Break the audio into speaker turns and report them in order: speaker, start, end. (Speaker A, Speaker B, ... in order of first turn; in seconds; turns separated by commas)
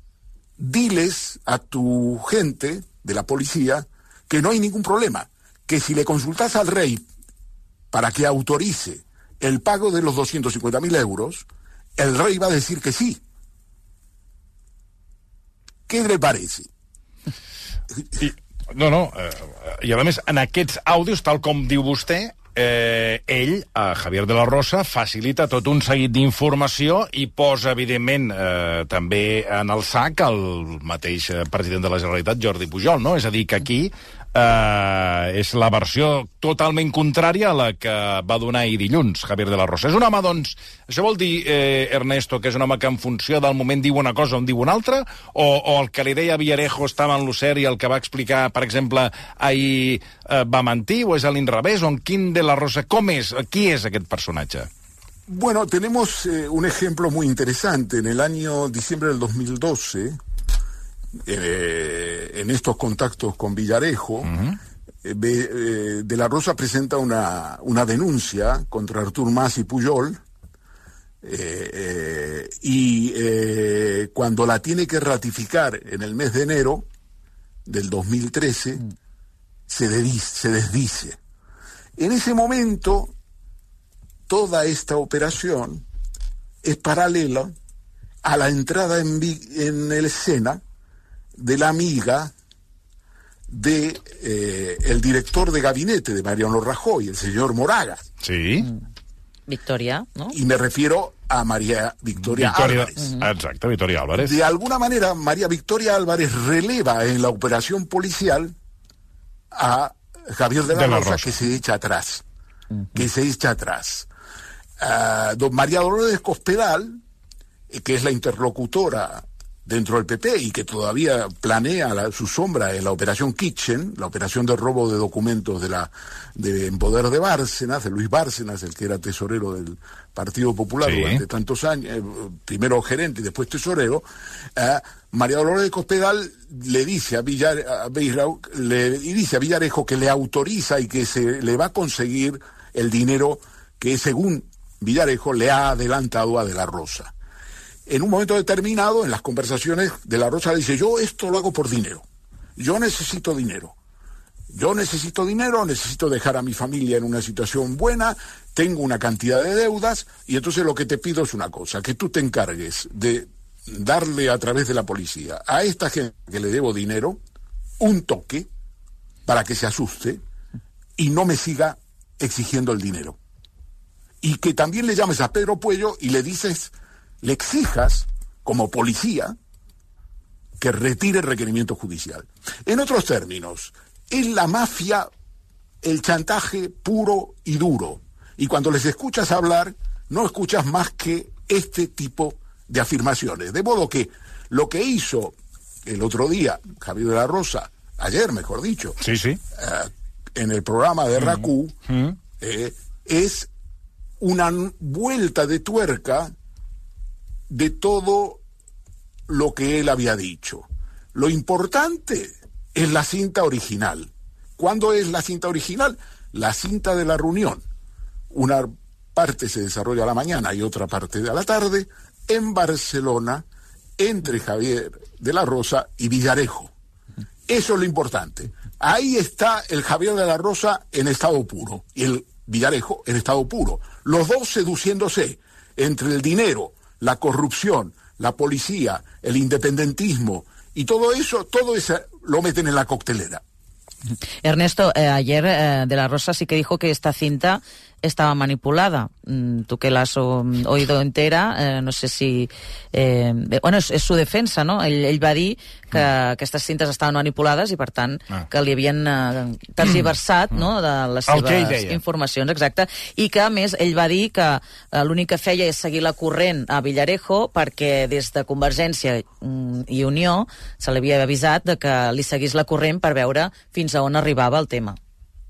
Speaker A: 0.6-7.1, Speaker A: 7.9-11.5, Speaker A: 12.0-13.2, Speaker A: 15.9-16.7, Speaker B: 18.2-54.7, Speaker A: 55.3-60.2, Speaker A: 61.2-64.3, Speaker B: 64.3-64.6, Speaker A: 65.0-70.2, Speaker A: 71.2-76.9, Speaker A: 77.7-78.8, Speaker A: 79.7-81.2, Speaker A: 82.0-83.1, Speaker A: 84.3-85.9, Speaker A: 86.6-87.5, Speaker A: 88.2-90.6, Speaker A: 91.4-92.3, Speaker A: 93.5-98.0, Speaker B: 98.2-98.7, Speaker C: 99.5-100.4, Speaker A: 100.3-103.2, Speaker B: 102.2-104.4, Speaker A: 104.1-108.5, Speaker A: 109.5-112.2, Speaker B: 110.7-111.3, Speaker A: 112.9-114.1, Speaker A: 114.8-117.0, Speaker A: 117.7-147.1, Speaker B: 130.8-131.2, Speaker A: 147.9-152.0, Speaker A: 152.6-153.8, Speaker A: 154.5-167.2, Speaker A: 167.8-168.5, Speaker A: 169.3-170.2, Speaker A: 171.0-173.2, Speaker A: 174.2-179.3, Speaker A: 180.6-185.1, Speaker A: 185.8-199.0, Speaker B: 199.0-199.4, Speaker A: 199.5-201.8, Speaker B: 201.2-202.2, Speaker A: 202.4-203.5, Speaker A: 204.2-206.3, Speaker A: 207.5-208.4, Speaker A: 209.3-217.6, Speaker A: 218.3-223.4, Speaker A: 224.0-226.7, Speaker A: 227.5-243.4, Speaker C: 244.4-275.0, Speaker B: 259.8-260.1, Speaker B: 261.3-262.0